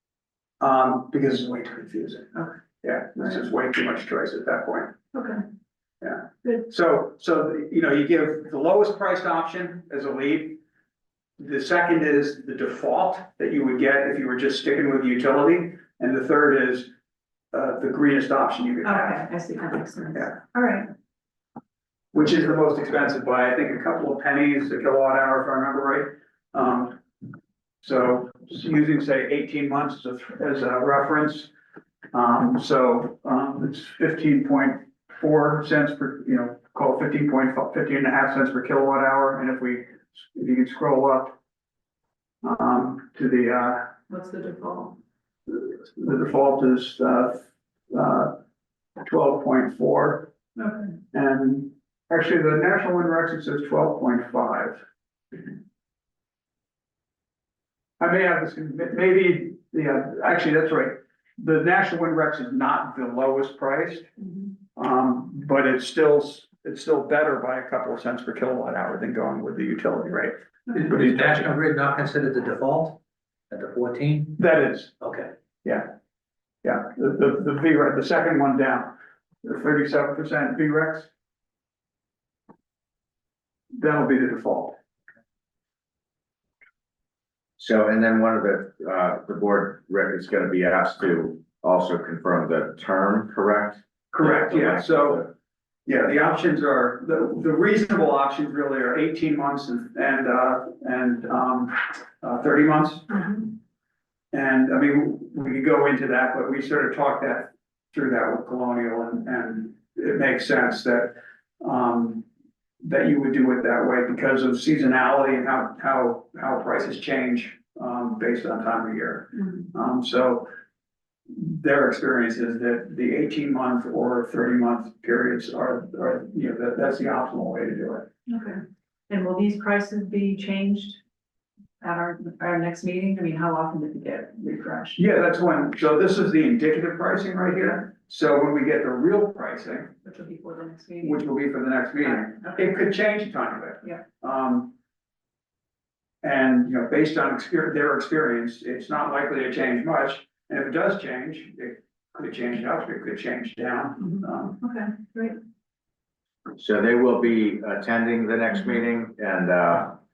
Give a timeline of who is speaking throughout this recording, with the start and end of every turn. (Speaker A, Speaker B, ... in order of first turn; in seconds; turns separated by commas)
Speaker A: 0.6-4.9, Speaker B: 5.1-5.4, Speaker A: 6.0-10.6, Speaker A: 11.4-16.9, Speaker A: 17.5-19.2, Speaker B: 18.8-20.9, Speaker A: 22.1-27.0, Speaker A: 27.8-31.5, Speaker A: 32.1-41.4, Speaker A: 42.4-43.9, Speaker B: 44.1-45.0, Speaker A: 45.5-48.4, Speaker A: 49.0-50.3, Speaker B: 50.6-51.0, Speaker A: 51.1-54.8, Speaker A: 58.0-64.1, Speaker A: 64.7-71.5, Speaker C: 70.7-73.0, Speaker C: 73.5-74.4, Speaker A: 74.4-75.0, Speaker C: 75.0-75.3, Speaker A: 75.6-75.9, Speaker A: 76.6-81.1, Speaker A: 83.7-84.8, Speaker D: 87.6-95.3, Speaker A: 94.1-95.3, Speaker A: 95.8-103.4, Speaker A: 104.3-112.2, Speaker A: 112.8-120.5, Speaker A: 121.3-128.1, Speaker B: 128.3-131.0, Speaker B: 131.8-135.0, Speaker A: 135.0-139.9, Speaker B: 140.0-141.2, Speaker A: 141.0-144.7, Speaker B: 142.0-142.6, Speaker A: 146.2-154.6, Speaker B: 154.6-155.4, Speaker D: 156.6-160.0